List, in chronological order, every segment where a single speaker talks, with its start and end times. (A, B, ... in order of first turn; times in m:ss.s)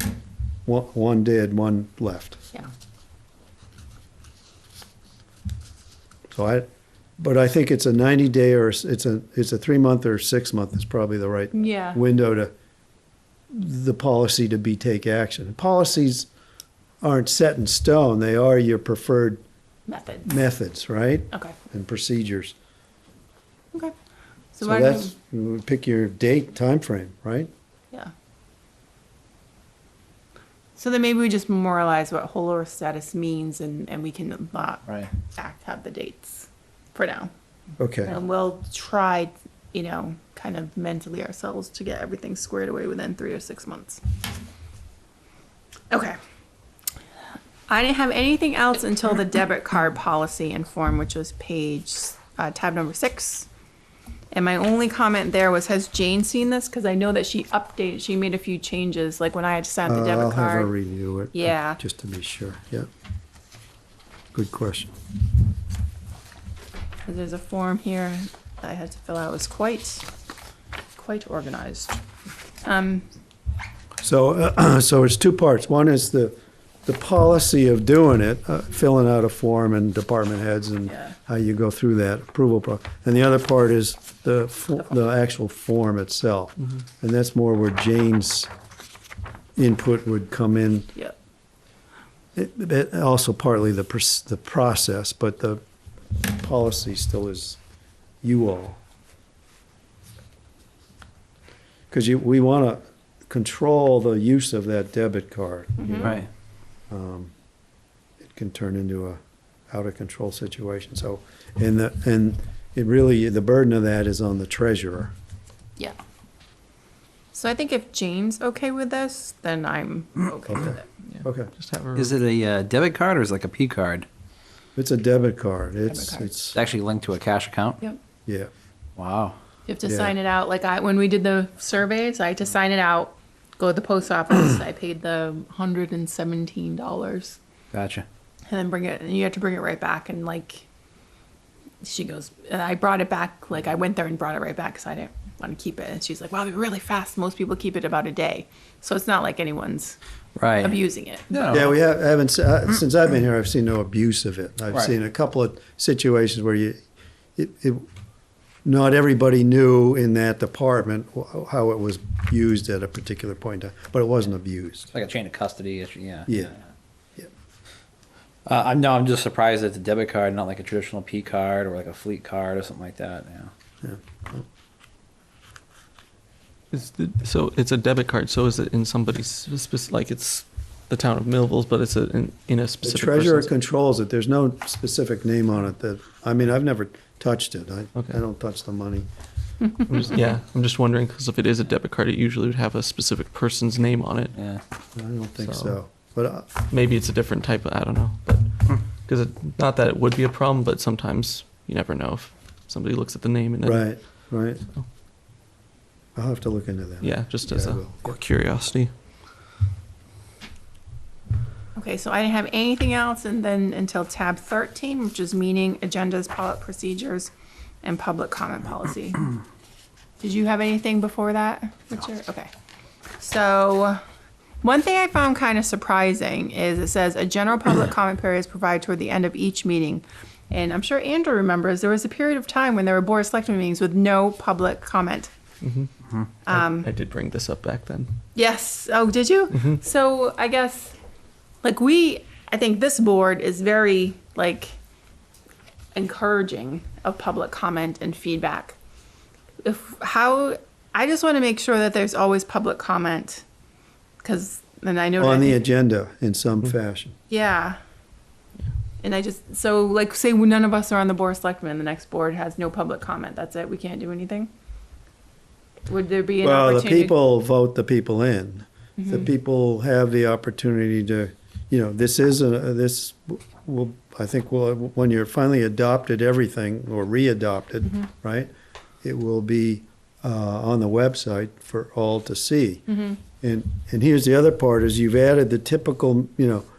0:00.7-0:02.4 A
0:06.3-0:06.7 A
0:07.2-0:12.5 A
0:11.5-0:12.0 B
0:13.5-0:16.3 A
0:17.0-0:19.4 A
0:19.9-0:20.3 B
0:20.2-0:22.5 A
0:24.5-0:25.1 B
0:24.6-0:27.5 A
0:30.8-0:37.3 B
0:37.8-0:38.2 A
0:38.0-0:44.0 B
0:45.9-0:46.2 B
0:47.7-0:53.5 B
0:54.3-1:00.7 B
0:59.8-1:02.9 A
1:01.3-1:01.8 B
1:04.3-1:04.9 A
1:07.0-1:10.1 B
1:10.9-1:12.0 B
1:12.6-1:13.1 B
1:14.0-1:28.5 A
1:29.6-1:30.9 A
1:32.4-1:35.6 A
1:36.1-1:37.6 A
1:38.2-1:38.8 A
1:41.9-1:46.2 A
1:45.8-1:46.1 B
1:46.0-1:46.3 C
1:46.9-1:47.3 A
1:48.2-1:49.2 A
1:49.7-1:55.1 A
1:57.3-2:00.9 B
2:00.5-2:01.5 A
2:01.0-2:02.1 D
2:01.9-2:04.1 C
2:04.8-2:06.6 A
2:05.8-2:06.3 B
2:06.5-2:07.8 C
2:09.0-2:09.4 C
2:09.7-2:17.4 B
2:09.8-2:10.1 A
2:17.7-2:18.1 C
2:18.5-2:20.6 B
2:21.8-2:30.0 B
2:30.4-2:31.8 C
2:30.6-2:31.5 B
2:31.5-2:36.8 A
2:37.4-2:37.8 A
2:38.6-2:44.9 A
2:44.9-2:46.4 C
2:46.3-2:46.5 A
2:48.4-2:53.5 C
2:53.8-2:54.4 A
2:56.7-3:03.5 D
3:02.8-3:09.1 A
3:09.8-3:14.3 D
3:14.4-3:14.6 C
3:14.9-3:16.5 A
3:15.4-3:15.8 D
3:16.6-3:23.9 D
3:23.6-3:24.6 A
3:26.1-3:28.1 A
3:27.0-3:28.9 D
3:31.8-3:37.3 B
3:37.8-3:39.3 B
3:40.2-3:42.5 B
3:43.2-3:44.0 B
3:44.6-3:55.3 B
3:55.6-3:55.9 D
3:56.4-3:56.9 B
3:56.5-3:58.1 D
3:58.3-4:00.9 B
4:01.6-4:04.7 B
4:05.9-4:08.8 B
4:09.6-4:13.4 B
4:14.2-4:15.6 B
4:15.2-4:17.1 A
4:17.3-4:17.8 B
4:19.0-4:24.5 B
4:25.9-4:27.2 B
4:26.4-4:38.5 A
4:29.0-4:29.3 B
4:39.0-4:42.8 A
4:42.9-4:43.2 B
4:43.4-4:46.6 A